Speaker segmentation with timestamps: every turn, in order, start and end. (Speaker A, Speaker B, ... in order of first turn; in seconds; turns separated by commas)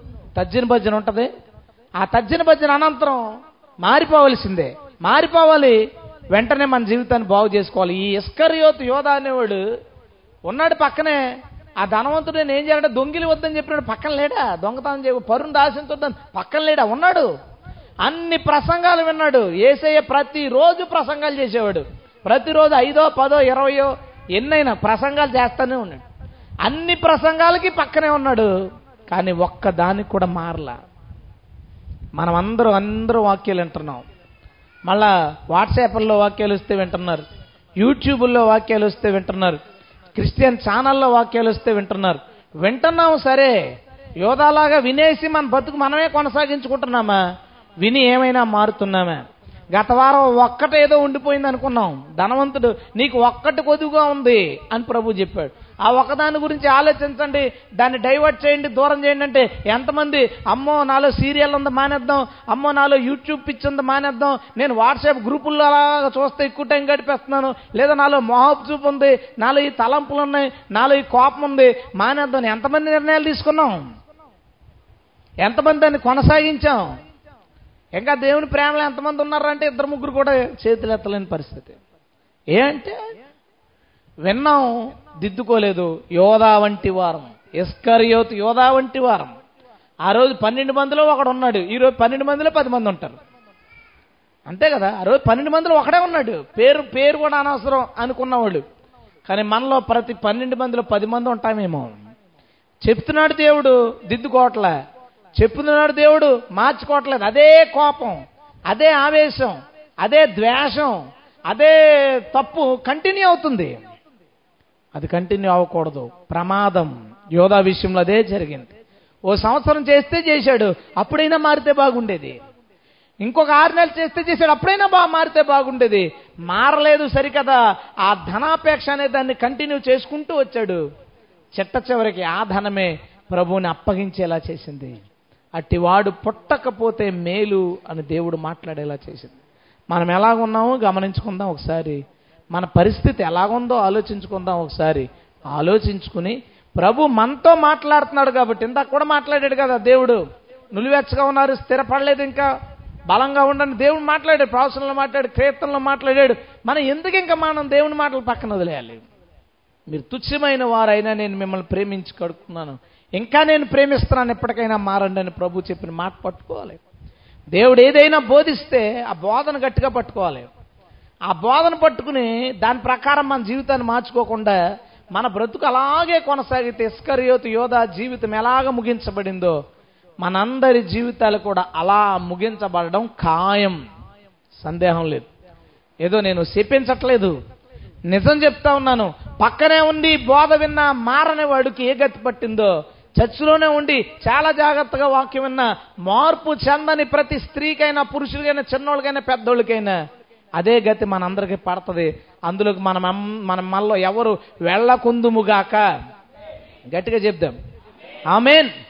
Speaker A: 0.3-1.3, Speaker A: 2.0-3.2, Speaker A: 3.8-5.8, Speaker A: 6.3-9.6, Speaker A: 10.5-11.2, Speaker A: 11.8-17.3, Speaker A: 18.0-26.0, Speaker A: 26.6-28.5, Speaker A: 29.1-30.8, Speaker A: 32.2-34.0, Speaker A: 34.9-37.2, Speaker A: 37.8-39.6, Speaker A: 40.1-43.6, Speaker A: 44.2-47.2, Speaker A: 47.8-49.2, Speaker A: 49.7-73.8, Speaker A: 75.4-76.8, Speaker A: 78.0-81.7, Speaker A: 82.5-83.0, Speaker A: 84.2-89.3, Speaker A: 90.0-93.2, Speaker A: 94.5-98.6, Speaker A: 99.3-101.9, Speaker A: 102.8-104.7, Speaker A: 105.3-108.2, Speaker A: 108.7-111.0, Speaker A: 111.5-111.8, Speaker A: 112.3-113.8, Speaker A: 114.9-118.7, Speaker A: 119.3-122.4, Speaker A: 123.2-130.8, Speaker A: 131.5-135.0, Speaker A: 135.6-139.4, Speaker A: 139.9-142.0, Speaker A: 142.5-152.5, Speaker A: 153.1-159.0, Speaker A: 159.9-166.8, Speaker A: 167.5-170.5, Speaker A: 171.3-174.6, Speaker A: 175.1-179.6, Speaker A: 180.2-183.8, Speaker A: 184.6-185.3, Speaker A: 186.0-187.3, Speaker A: 188.1-200.0, Speaker A: 200.6-205.8, Speaker A: 206.9-207.6, Speaker A: 208.3-208.7